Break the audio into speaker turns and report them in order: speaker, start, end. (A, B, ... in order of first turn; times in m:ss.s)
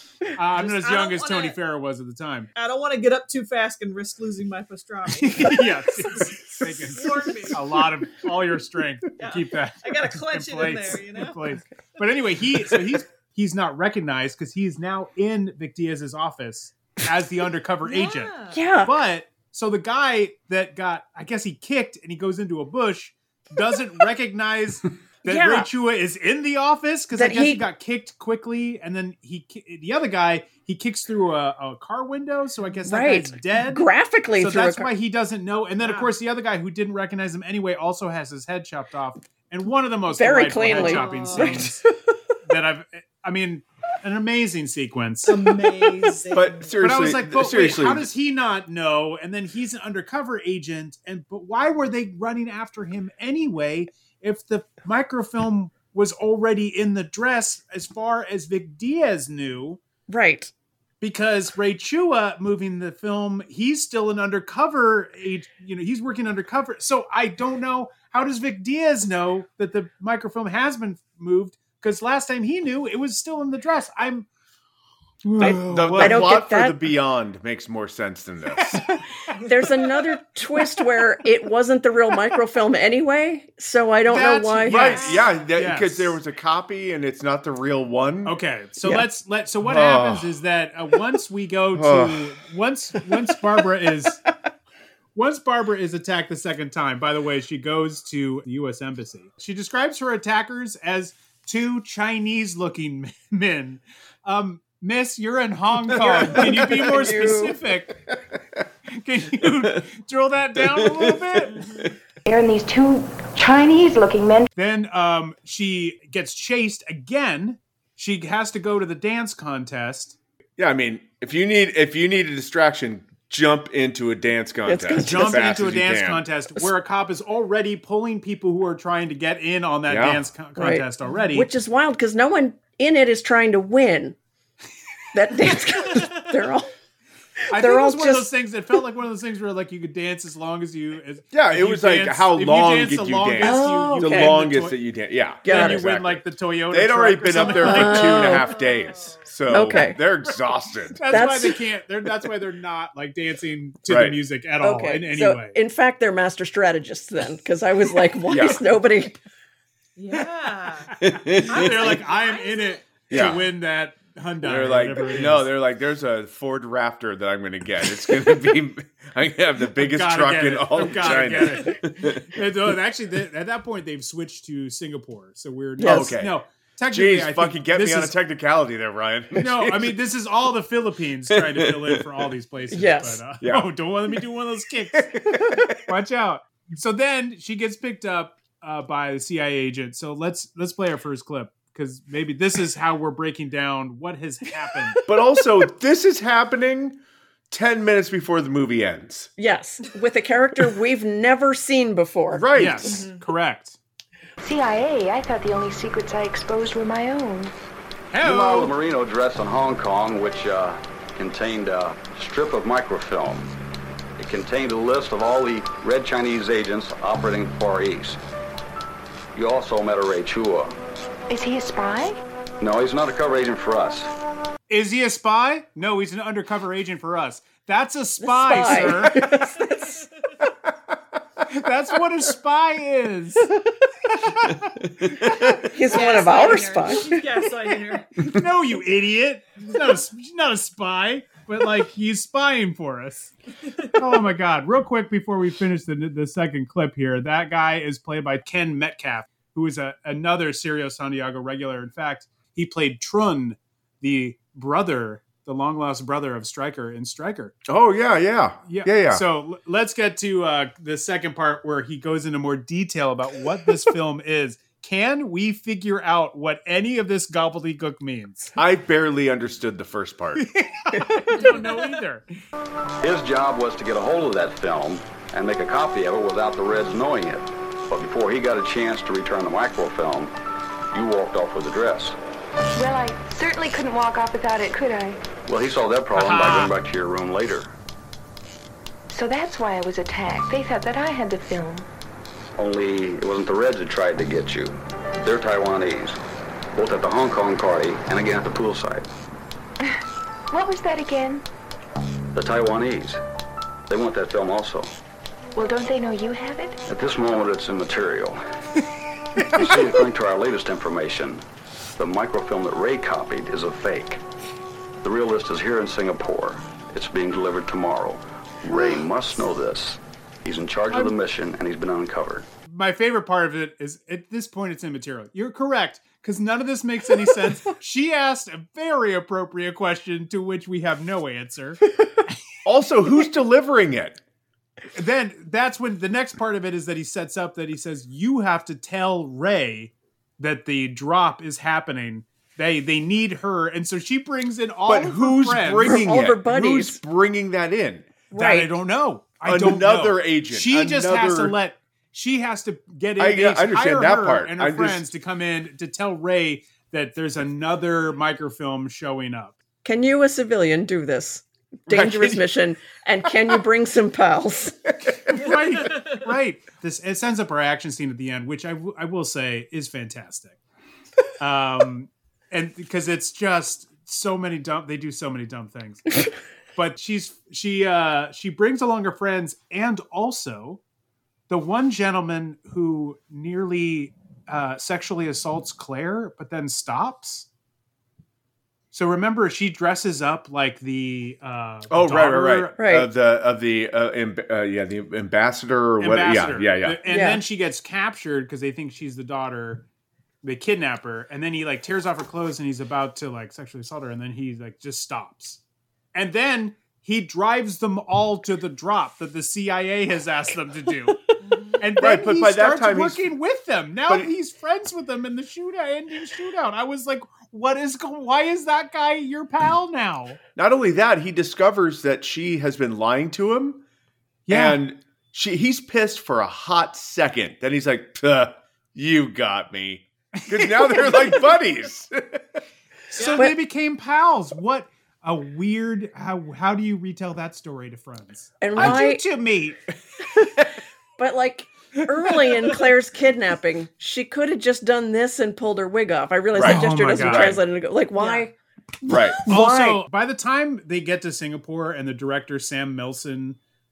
0:00.3-0:02.5 A
0:00.6-0:01.6 B
0:02.6-0:07.6 B
0:05.2-0:33.8 A
0:09.2-0:11.4 B
0:17.8-0:18.6 B
0:18.5-0:18.9 C
0:25.2-0:25.7 C
0:27.2-0:27.6 C
0:32.9-0:34.9 C
0:34.4-0:41.8 A
0:35.8-0:36.1 B
0:40.1-0:41.8 C
0:40.7-0:41.6 B
0:42.5-0:45.5 A
0:45.3-0:46.8 B
0:46.3-0:48.1 D
0:46.8-0:59.8 A
1:00.1-1:00.5 C
1:01.0-1:14.3 A
1:15.2-1:16.3 A
1:15.4-1:16.8 C
1:15.4-1:18.8 D
1:19.4-1:25.0 C
1:24.1-1:26.2 A
1:24.7-1:28.4 D
1:28.2-1:34.2 A
1:29.6-1:30.3 D
1:31.8-1:32.2 D
1:35.2-1:48.0 A
1:45.9-1:47.0 D
1:46.0-1:47.6 C
1:48.1-1:48.6 D
1:48.9-1:51.7 A
1:49.4-1:49.8 D
1:50.6-1:51.5 D
1:51.5-1:51.9 B
1:52.3-1:54.5 E
1:54.6-2:00.2 A
2:00.6-2:06.3 D
2:04.7-2:05.5 C
2:05.1-2:11.5 A
2:09.9-2:10.2 D
2:10.6-2:14.2 C
2:15.1-2:16.7 C
2:17.5-2:24.8 A
2:17.5-2:18.3 C
2:21.3-2:31.0 D
2:23.4-2:24.4 C
2:25.4-2:25.8 C
2:25.4-2:28.3 A
2:27.4-2:28.5 C
2:27.6-2:29.3 B
2:29.5-2:30.0 C
2:31.0-2:35.6 A
2:31.1-2:31.6 C
2:33.9-2:34.2 D
2:34.6-2:39.2 C
2:38.3-2:38.6 D
2:40.0-2:40.9 B
2:41.0-2:41.6 D
2:41.1-2:45.6 A
2:41.5-2:42.8 B
2:43.1-2:43.4 D
2:44.4-2:52.2 D
2:49.8-2:58.2 A
2:55.8-2:56.1 C
2:55.8-2:56.4 D
2:56.9-3:00.0 D
2:59.4-3:05.2 A
3:01.3-3:02.0 D
3:02.7-3:03.2 C
3:03.4-3:03.7 D
3:05.2-3:05.8 D
3:05.9-3:15.0 A
3:15.1-3:17.0 D
3:17.5-3:19.3 D
3:19.4-3:23.0 C
3:22.3-3:23.8 A
3:22.4-3:22.9 D
3:22.8-3:23.2 B
3:24.4-3:27.5 E
3:28.1-3:28.7 A
3:28.2-3:33.5 F
3:34.2-3:38.2 F
3:39.4-3:40.8 F
3:41.3-3:42.2 E
3:42.6-3:44.1 F
3:44.7-3:49.2 A
3:48.2-3:50.1 C
3:51.5-3:53.5 A
3:55.0-3:55.6 D
3:55.6-3:57.2 C
3:55.9-3:58.1 B
3:58.2-4:03.3 A
4:03.9-4:17.6 A
4:17.7-4:19.2 D
4:18.7-4:28.5 A
4:28.6-4:30.4 D
4:30.4-4:32.3 A
4:31.4-4:32.0 B
4:33.0-4:40.3 F
4:40.9-4:42.2 F
4:42.8-4:45.2 E
4:45.4-4:47.7 F
4:46.1-4:46.7 A
4:49.1-4:51.9 E
4:52.6-4:56.2 F
4:56.8-4:59.1 F
5:00.5-5:01.4 E
5:02.3-5:03.2 F
5:03.9-5:04.9 F
5:05.6-5:06.8 E
5:06.9-5:08.4 F
5:09.4-5:09.6 A
5:09.5-5:11.4 F
5:12.0-5:14.2 F
5:15.0-5:22.5 F
5:22.7-5:31.8 A
5:32.6-5:34.2 D
5:35.0-5:46.1 A
5:44.9-5:48.1 D
5:45.8-5:47.0 C
5:48.3-5:48.8 C
5:48.4-5:59.6 A
5:49.4-5:51.6 D
5:53.2-5:55.1 D
5:59.8-6:04.8 C
6:01.9-6:02.5 D
6:03.3-6:03.6 D
6:05.0-6:05.4 D
6:05.3-6:10.6 A
6:05.9-6:06.1 B
6:11.4-6:16.1 A
6:16.8-6:20.8 A
6:21.5-6:27.5 A
6:28.9-6:32.8 A
6:31.9-6:37.0 D
6:32.8-6:33.1 C
6:36.0-6:39.8 A
6:37.1-6:37.4 C
6:40.4-6:45.6 A
6:46.1-7:00.4 A
6:51.4-6:51.8 B
6:52.0-6:53.3 D
7:00.6-7:03.8 D
7:04.5-7:04.8 A
7:04.5-7:12.6 D
7:10.4-7:11.2 A
7:13.1-7:19.8 A
7:18.6-7:19.2 C
7:20.4-7:20.6 C
7:21.2-7:30.0 C
7:22.2-7:22.5 A
7:26.5-7:27.6 D
7:26.6-7:27.6 A
7:28.2-7:28.5 B
7:29.1-7:29.4 D
7:29.5-7:33.6 A